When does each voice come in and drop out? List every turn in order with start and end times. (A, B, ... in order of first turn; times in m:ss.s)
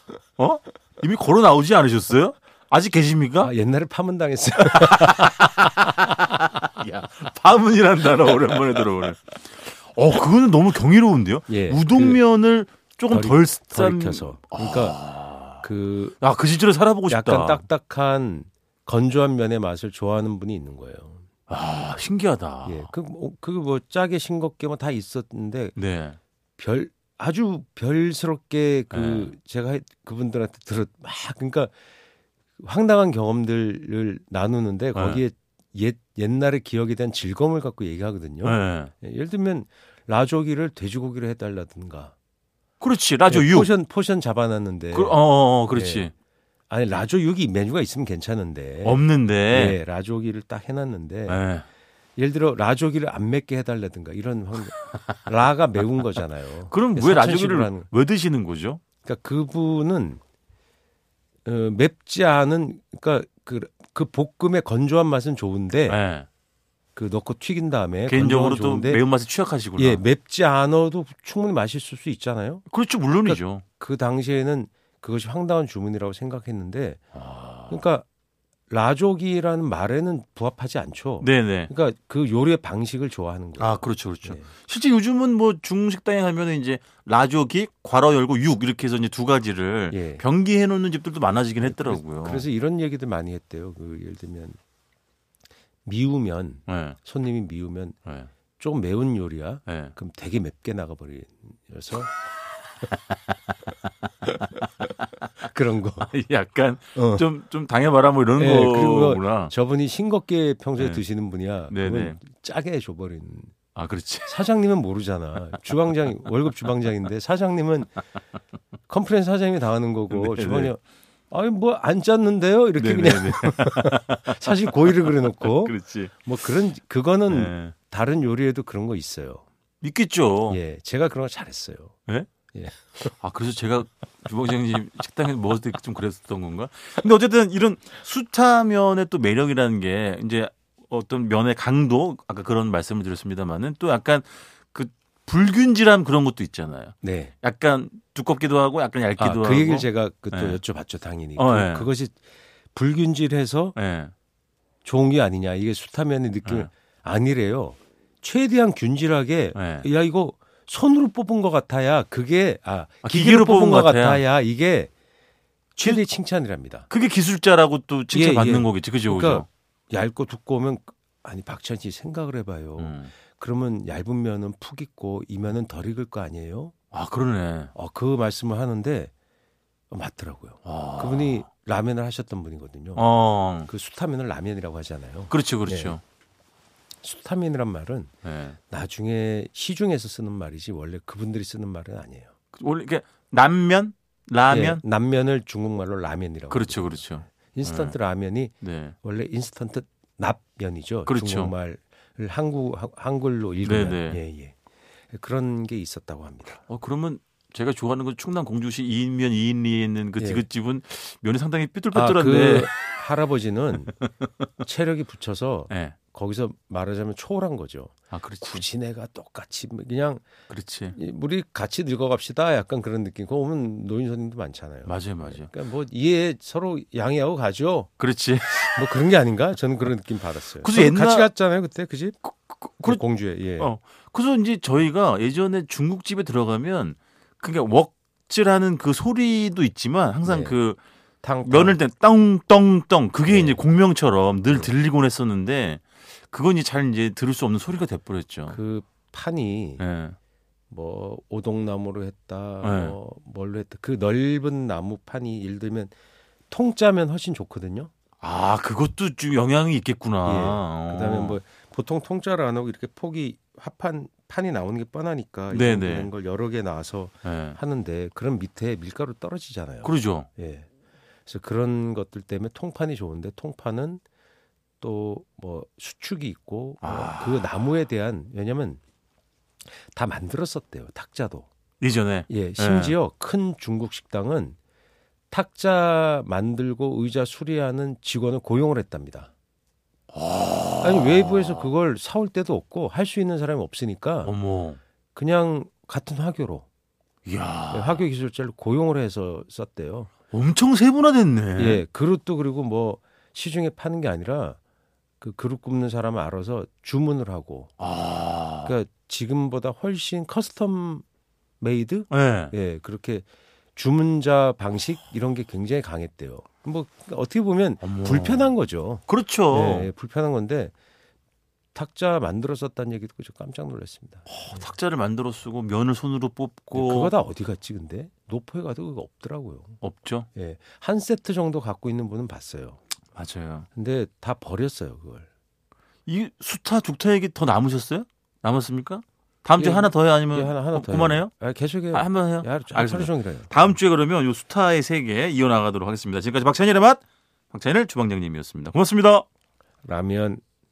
0:00.4-0:03.5 A
0:03.4-0:05.5 B
0:04.6-0:15.7 A
0:11.5-0:12.2 B
0:13.1-0:15.0 B
0:15.6-0:16.2 B
0:16.2-0:17.7 A
0:17.1-0:21.3 B
0:21.5-0:22.9 A
0:22.6-0:25.8 B
0:25.8-0:26.2 A
0:26.6-0:31.7 B
0:28.9-0:29.3 A
0:32.6-0:42.1 B
0:35.0-0:35.2 A
0:38.4-0:38.9 A
0:42.8-0:43.7 A
0:43.3-0:46.1 B
0:44.9-0:46.1 A
0:46.7-0:51.4 B
0:48.8-0:49.8 A
0:51.3-0:51.7 A
0:52.2-0:57.9 B
0:56.7-0:58.8 A
0:59.0-1:00.2 B
1:01.4-1:06.0 B
1:05.9-1:06.3 A
1:07.0-1:09.0 B
1:08.1-1:10.0 A
1:09.8-1:12.7 B
1:12.7-1:13.6 A
1:13.2-1:17.0 B
1:17.2-1:17.8 A
1:17.7-1:18.1 B
1:18.7-1:24.5 B
1:21.2-1:21.7 A
1:23.6-1:32.5 A
1:29.9-1:30.2 B
1:31.6-1:34.6 B
1:35.8-1:38.0 B
1:36.7-1:37.0 A
1:38.6-1:42.1 B
1:39.7-1:39.9 A
1:45.4-1:46.1 B
1:46.0-1:49.5 A
1:47.0-1:47.3 B
1:48.4-1:53.6 B
1:50.8-1:51.0 A
1:51.7-1:52.2 A
1:53.8-1:54.4 A
1:54.3-1:58.0 B
1:58.9-2:09.4 B
2:00.1-2:00.7 A
2:02.8-2:06.3 A
2:07.3-2:07.7 A
2:09.8-2:10.6 A
2:10.5-2:12.0 B
2:12.5-2:13.1 B
2:13.1-2:30.6 A
2:27.0-2:27.3 B
2:29.2-2:33.8 B
2:31.4-2:31.9 A
2:33.8-2:34.1 A
2:34.8-2:44.9 B
2:36.4-2:36.7 A
2:39.6-2:39.9 A
2:43.0-2:44.2 A
2:45.8-2:46.9 B
2:46.9-2:49.5 A
2:48.1-2:56.7 B
2:52.8-2:53.1 A
2:56.9-2:57.7 A
2:57.7-2:59.1 B
2:59.9-3:03.1 B
3:00.6-3:01.4 A
3:03.0-3:03.7 A
3:03.6-3:06.0 B
3:05.3-3:06.0 A
3:07.0-3:08.1 B
3:08.2-3:08.6 A
3:08.6-3:12.3 B
3:12.6-3:14.8 A
3:14.5-3:24.6 B
3:16.5-3:18.0 A
3:18.6-3:19.0 A
3:21.1-3:21.5 A
3:23.6-3:24.2 A
3:25.1-3:26.6 B
3:26.7-3:32.9 A
3:30.2-3:30.4 B
3:31.9-3:34.0 B
3:34.6-3:40.2 B
3:35.7-3:36.0 A
3:38.1-3:38.6 A
3:40.5-3:41.0 A
3:40.9-3:47.9 B
3:44.9-3:45.5 A
3:48.0-3:49.1 A
3:48.5-3:52.2 B
3:50.6-3:51.3 A
3:52.2-3:53.0 A
3:52.8-3:53.7 B
3:53.6-4:00.8 A
4:00.2-4:00.6 B
4:01.2-4:01.8 B
4:01.4-4:08.6 A
4:03.3-4:03.6 B
4:08.5-4:09.8 B
4:09.8-4:10.2 A
4:10.7-4:15.9 B
4:12.6-4:13.0 A
4:16.5-4:17.9 B
4:18.2-4:21.4 A
4:20.2-4:30.7 B
4:25.5-4:26.1 A
4:27.2-4:27.6 A
4:29.8-4:30.3 A
4:31.3-4:34.0 B
4:34.8-4:38.8 B
4:36.8-4:37.6 A
4:39.7-4:41.5 B
4:41.8-4:43.0 A
4:42.3-4:44.6 B
4:45.3-4:49.3 B
4:50.1-4:51.7 A
4:50.8-4:54.3 B
4:54.2-4:54.8 A
4:55.2-4:56.7 B
4:57.2-4:58.1 A
4:57.7-5:00.1 B
5:00.3-5:01.8 A
5:01.6-5:04.6 B
5:05.2-5:07.7 B
5:07.8-5:08.8 A
5:08.6-5:11.0 B
5:11.6-5:20.7 B
5:12.1-5:12.6 A
5:17.8-5:18.6 A
5:19.1-5:19.9 A
5:21.7-5:24.3 B
5:24.3-5:27.1 A
5:26.7-5:29.8 B
5:29.8-5:30.3 A
5:30.3-5:32.8 B
5:33.2-5:33.7 A
5:33.8-5:35.3 B
5:36.1-5:41.3 A
5:39.6-5:43.8 B
5:41.9-5:49.2 A
5:49.8-5:50.4 B